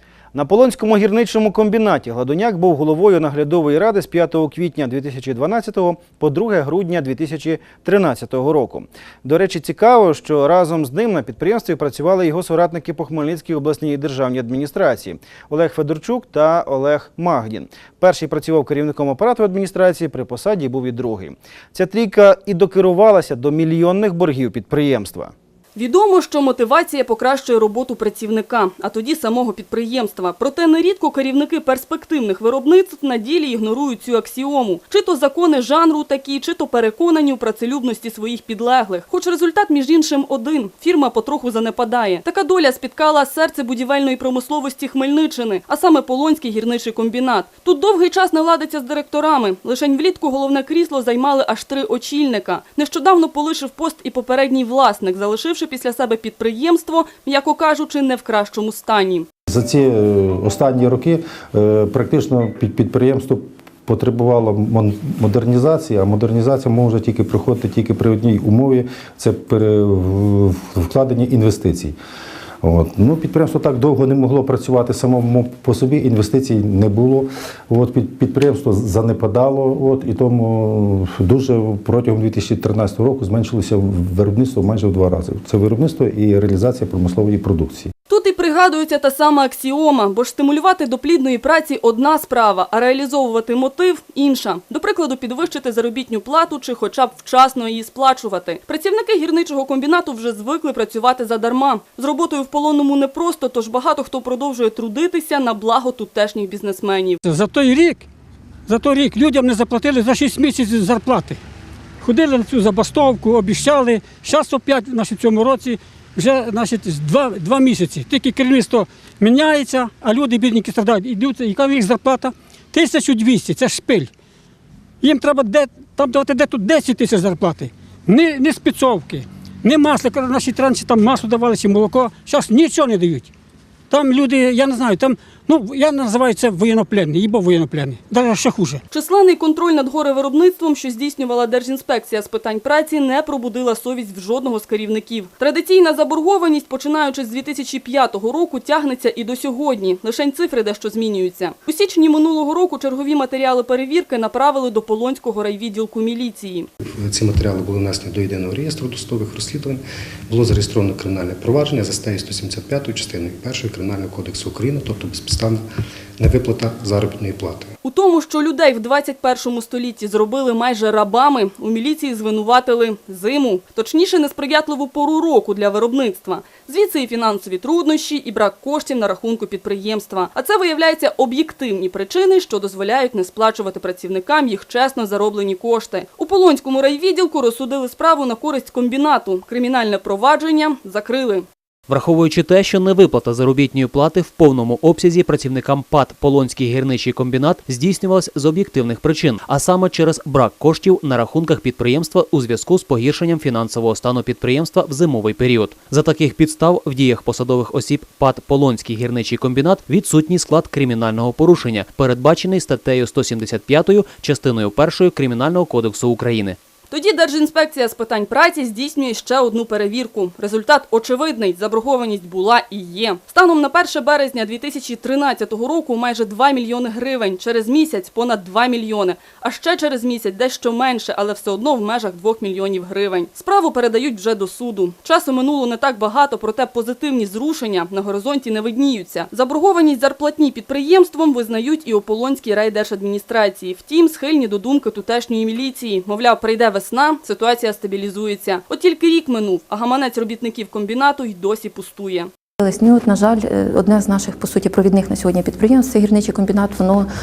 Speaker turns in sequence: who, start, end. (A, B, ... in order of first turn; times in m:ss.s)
0:00.3-0:25.3 A
0:25.8-0:59.3 B
0:59.5-1:12.0 C
1:12.6-1:27.9 C
1:28.1-1:47.2 B
1:47.2-1:48.0 D
1:48.7-1:51.4 D
1:52.0-2:04.1 D
2:05.0-2:13.3 D
2:13.9-2:18.8 D
2:18.9-2:36.7 B
2:36.8-2:45.6 E
2:46.2-2:47.7 E
2:47.8-3:11.5 B
3:11.9-3:36.6 F
3:36.9-4:12.3 B
4:12.8-4:17.0 G